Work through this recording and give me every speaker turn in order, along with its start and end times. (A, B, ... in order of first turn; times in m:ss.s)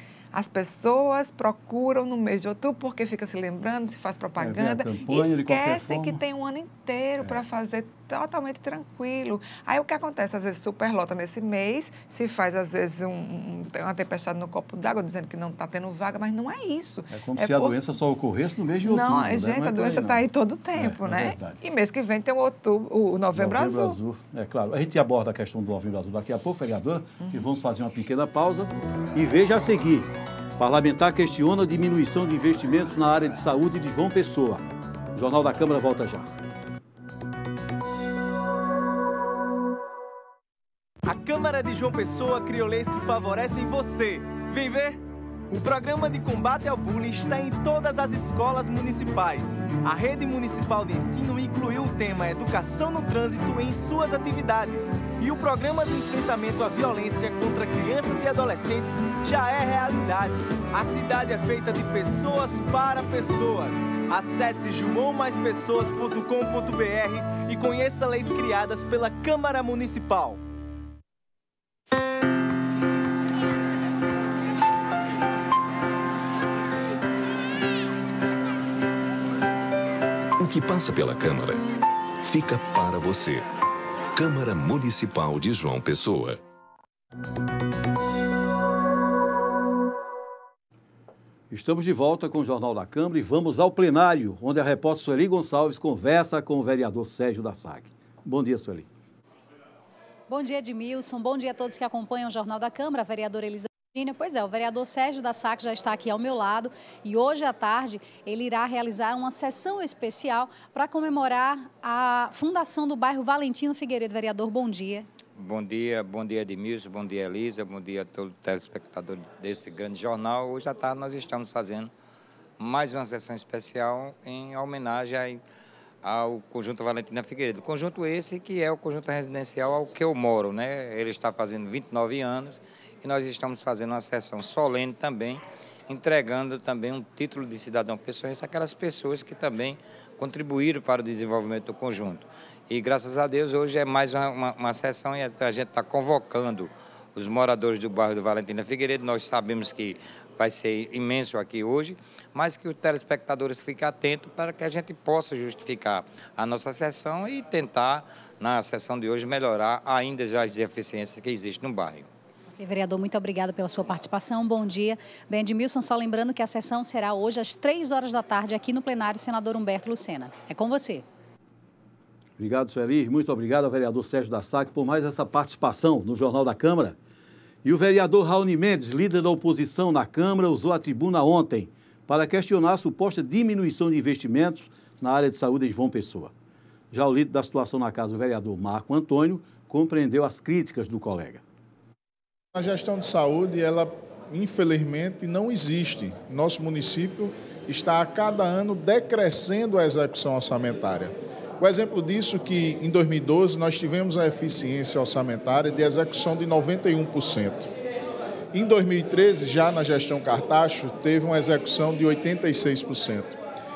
0:00.3-0:17.8 A
0:04.4-0:06.2 B
0:17.1-0:20.2 B
0:18.8-0:24.0 A
0:20.8-0:21.6 B
0:23.3-0:36.3 B
0:27.2-0:27.4 A
0:41.0-1:10.4 C
1:20.4-1:21.6 D
1:22.2-1:23.5 D
1:24.1-1:26.4 D
1:31.5-1:38.9 B
1:40.3-1:55.1 E
1:55.3-2:01.9 F
2:02.6-2:05.4 F
2:06.0-2:42.1 F
2:42.6-2:51.0 E
2:52.4-2:57.0 B
2:57.6-3:06.3 B
3:06.9-3:11.4 B
3:12.5-3:27.7 G
3:28.5-3:33.4 G